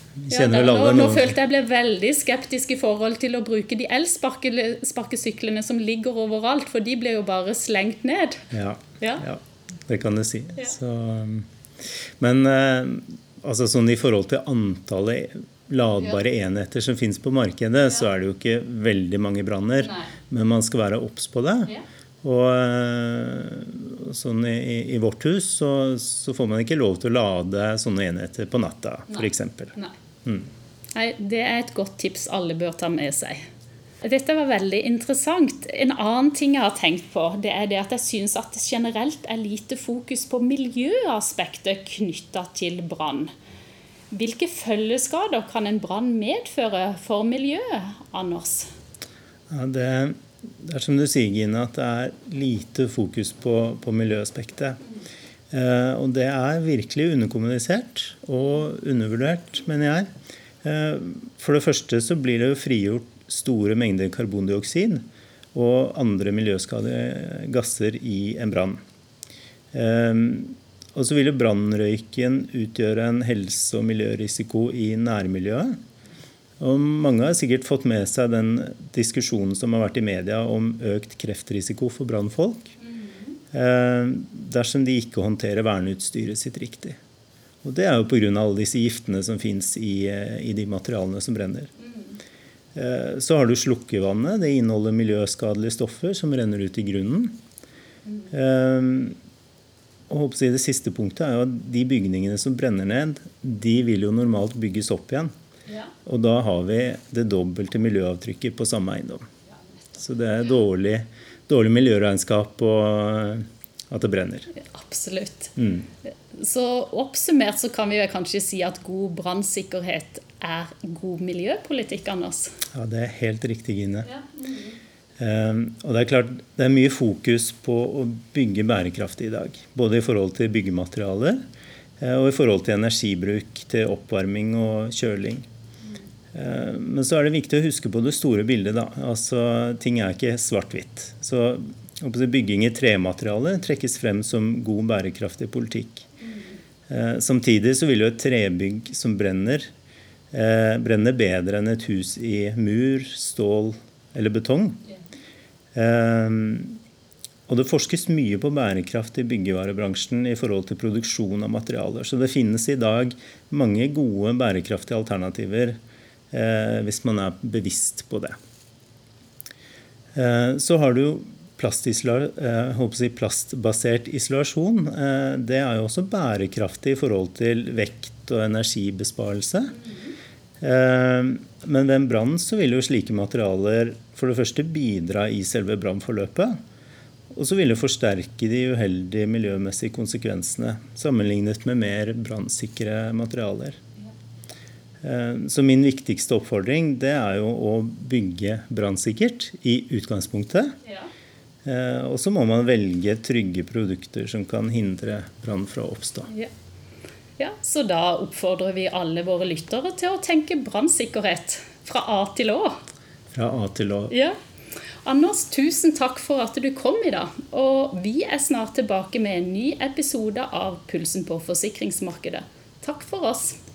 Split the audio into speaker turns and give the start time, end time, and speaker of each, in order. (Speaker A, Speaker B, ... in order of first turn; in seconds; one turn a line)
Speaker A: 0.2-1.4
Speaker B: 0.3-8.4
Speaker A: 8.5-11.5
Speaker B: 9.0-9.2
Speaker A: 12.2-30.5
Speaker B: 19.8-20.1
Speaker B: 29.1-29.9
Speaker B: 30.9-33.4
Speaker B: 34.0-43.3
Speaker B: 44.1-48.7
Speaker A: 49.5-54.8
Speaker A: 55.5-60.1
Speaker A: 60.6-68.8
Speaker A: 69.7-75.7
Speaker A: 76.6-82.7
Speaker B: 82.9-83.3
Speaker A: 83.5-87.0
Speaker A: 87.6-91.7
Speaker A: 92.7-97.4
Speaker A: 98.3-99.2
Speaker A: 100.1-105.3
Speaker B: 105.7-105.9
Speaker A: 106.0-109.3
Speaker A: 110.0-114.5
Speaker B: 114.5-115.5
Speaker A: 115.6-115.8
Speaker B: 116.3-122.5
Speaker A: 122.7-124.1
Speaker B: 124.0-124.8
Speaker A: 125.2-131.4
Speaker A: 132.0-135.4
Speaker A: 136.3-146.1
Speaker A: 146.9-149.7
Speaker A: 150.3-154.8
Speaker A: 155.7-156.8
Speaker A: 157.5-165.8
Speaker A: 166.3-168.3
Speaker A: 170.1-179.8
Speaker A: 180.6-186.6
Speaker A: 187.3-193.8
Speaker A: 195.0-200.8
Speaker A: 201.6-206.3
Speaker B: 207.4-212.8
Speaker A: 213.3-214.1
Speaker B: 214.1-214.3
Speaker B: 215.0-223.6